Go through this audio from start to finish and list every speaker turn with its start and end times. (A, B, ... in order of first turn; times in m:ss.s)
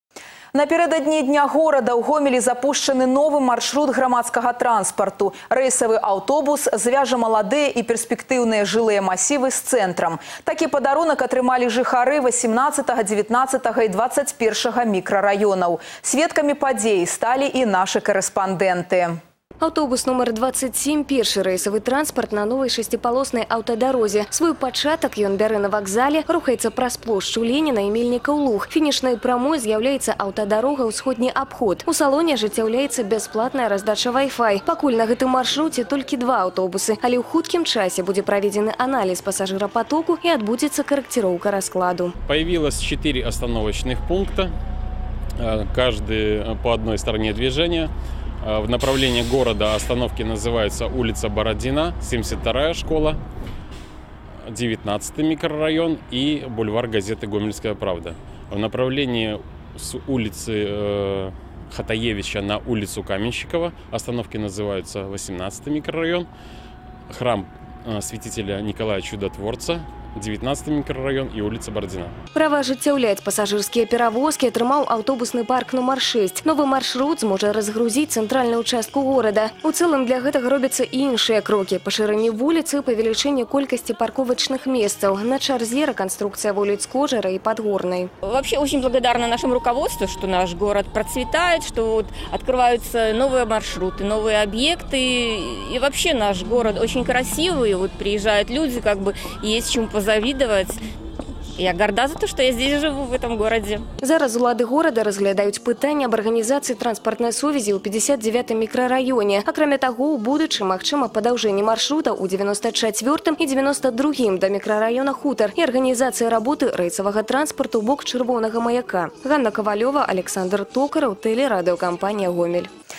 0:00.5-0:19.2 A
0:19.6-0:42.1 B
0:42.2-0:44.5 C
0:45.4-0:53.2 C
0:54.5-1:06.3 C
1:07.1-1:12.1 C
1:12.3-1:28.1 B
1:28.2-1:40.8 D
1:41.6-1:43.8 D
1:44.0-2:02.7 B